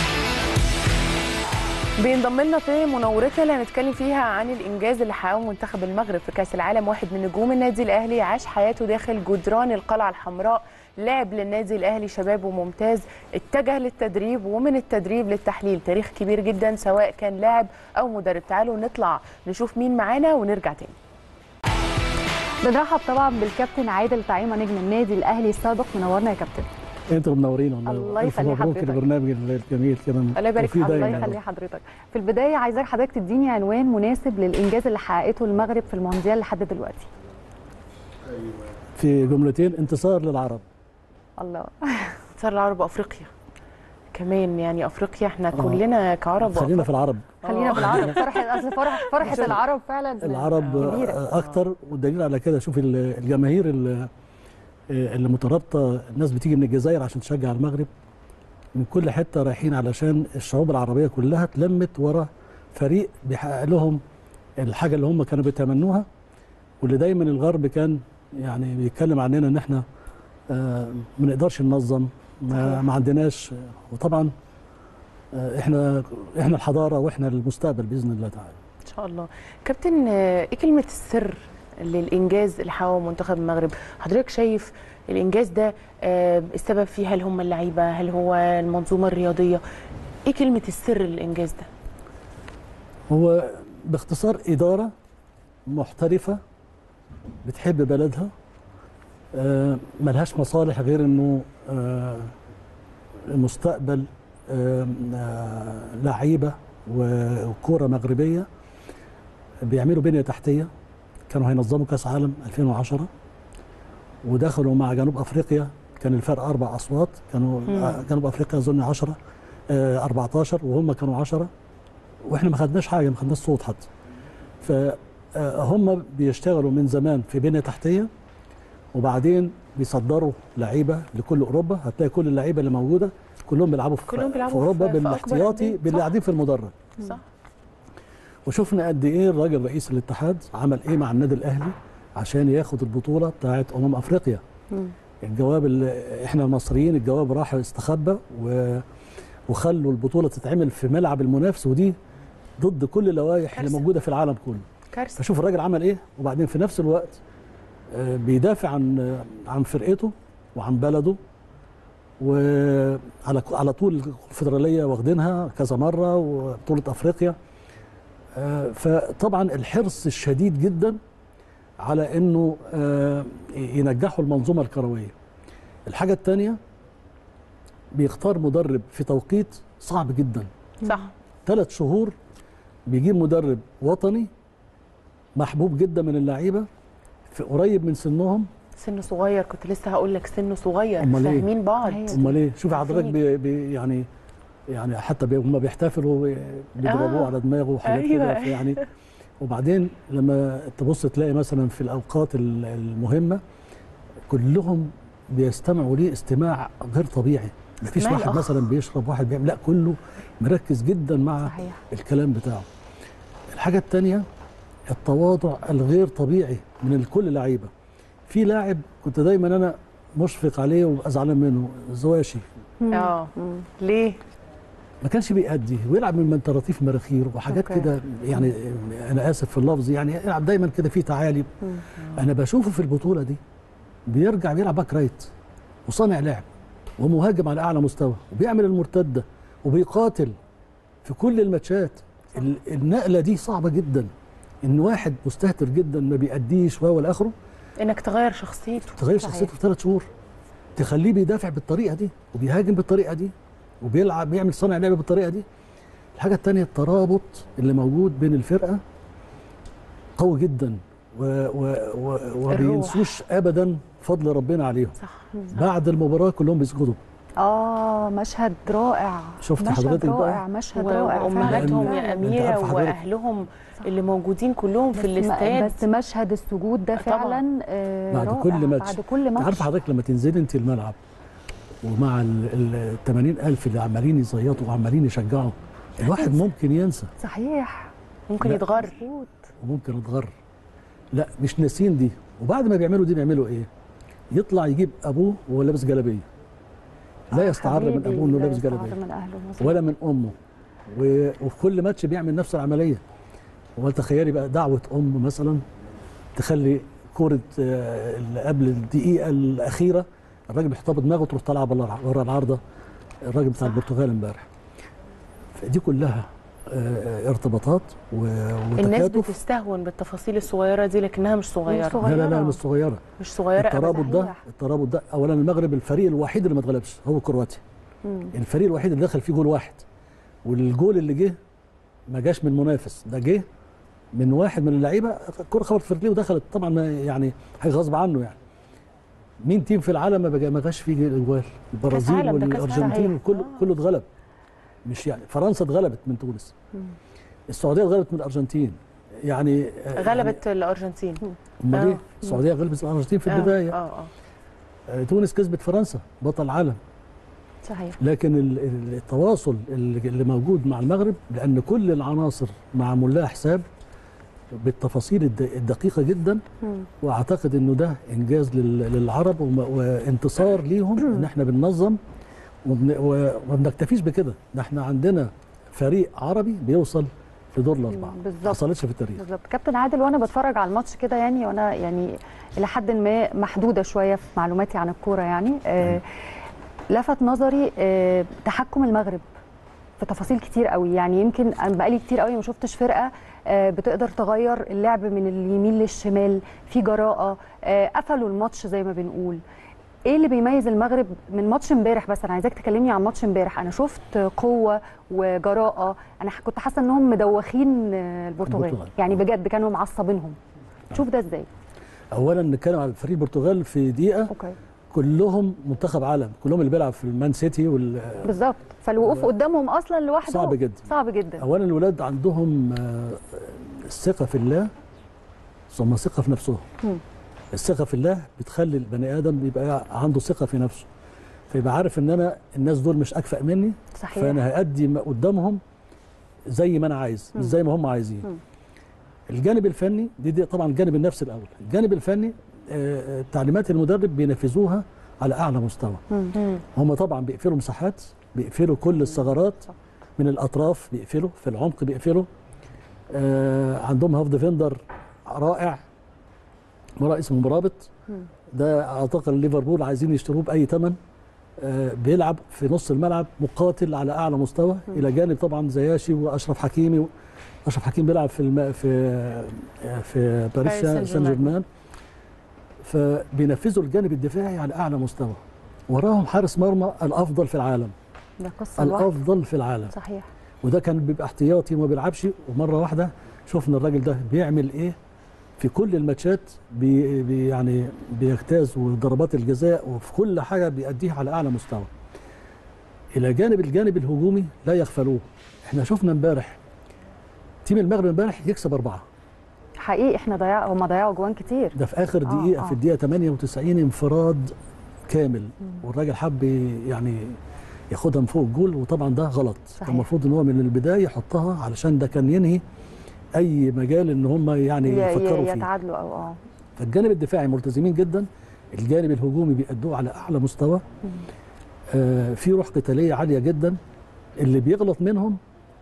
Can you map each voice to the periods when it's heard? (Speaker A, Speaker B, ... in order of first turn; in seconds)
Speaker A: 2.0-21.0, 30.3-31.4, 42.4-43.3, 44.1-46.9, 47.4-48.4, 49.1-49.5, 50.6-51.5, 78.8-89.6, 90.2-91.7, 117.7-118.0, 134.1-136.1, 137.0-137.2, 153.5-153.8, 154.9-155.2, 180.8-181.1, 188.8-193.2, 196.8-197.3, 197.8-198.8, 207.9-208.7, 222.9-224.2, 247.8-249.0, 265.0-265.3, 270.7-275.8, 277.0-277.4, 288.3-289.1, 318.8-322.0, 323.2-324.1, 341.9-343.6, 349.9-352.0, 353.3-354.1, 470.6-471.5
Speaker B: 22.6-26.7, 27.9-29.0, 30.6-37.1, 41.4-42.2, 47.4-51.2, 72.5-72.8, 191.8-192.2, 211.4-211.8, 222.8-223.7, 227.5-227.9, 249.2-249.5, 262.6-263.0, 267.4-272.2, 274.9-279.7, 287.2-287.9, 297.3-299.8, 321.7-322.6, 323.9-324.4, 328.0-328.3, 342.7-343.1, 357.6-358.0, 366.6-366.9, 377.9-378.6, 379.2-386.0, 386.9-389.2, 390.0-399.4, 400.0-410.4, 410.9-411.5, 414.3-414.6, 418.2-421.4, 433.9-434.4, 446.1-446.4, 478.4-479.1, 479.9-480.3, 499.8-502.8, 509.8-510.1, 514.9-516.4
Speaker C: 27.1-31.4, 38.9-40.6, 45.5-45.8, 46.4-48.3, 49.2-49.6, 50.2-54.1, 54.9-57.9, 58.7-64.0, 64.6-66.1, 66.8-69.8, 70.5-74.3, 75.3-78.6, 93.1-94.9, 95.7-96.4, 97.4-98.3, 99.3-102.3, 103.3-108.5, 109.7-110.7, 111.3-113.1, 114.2-119.2, 119.7-121.5, 122.2-123.9, 124.6-128.1, 128.9-136.8, 138.4-144.4, 145.2-148.8, 149.5-151.9, 152.6-154.7, 155.2-157.2, 157.9-161.2, 162.2-167.4, 168.3-171.0, 171.8-175.1, 175.8-176.6, 177.9-180.5, 181.4-182.1, 182.9-184.3, 185.3-186.7, 187.3-188.5, 191.0-191.5, 192.1-194.1, 194.7-198.8, 199.4-203.4, 204.3-212.7, 213.5-214.2, 214.9-217.7, 218.3-222.4, 225.0-233.4, 234.1-235.3, 235.9-236.5, 237.0-240.3, 241.0-244.1, 244.6-247.3, 249.0-250.1, 250.8-255.4, 256.2-258.8, 260.2-265.0, 265.5-267.0, 269.4-270.4, 271.4-273.0, 278.1-281.0, 281.8-287.1, 288.4-288.9, 289.6-290.3, 291.1-293.7, 294.3-296.3, 297.3-299.0, 299.6-300.3, 300.9-303.0, 303.8-305.6, 306.3-312.6, 313.2-314.5, 315.5-319.4, 322.0-323.0, 323.6-327.6, 328.3-329.8, 330.4-331.4, 332.1-333.4, 334.1-338.4, 339.4-344.1, 344.8-346.5, 347.5-350.4, 351.6-353.8, 354.9-356.8, 358.0-363.6, 364.5-366.4, 367.0-372.0, 372.6-379.2, 408.4-408.9, 412.1-414.3, 414.9-418.3, 419.0-419.3, 420.2-420.9, 421.4-424.7, 425.7-426.6, 427.5-430.9, 431.5-435.6, 436.5-438.3, 439.3-452.3, 453.1-455.8, 457.0-457.9, 458.5-461.0, 461.6-467.1, 467.6-471.6, 472.8-477.9, 478.8-479.9, 480.6-485.0, 485.6-491.9, 493.1-496.6, 497.6-499.0, 501.7-504.5, 505.1-507.4, 507.9-512.6, 513.4-515.7, 516.8-520.8, 521.9-523.8, 524.4-525.4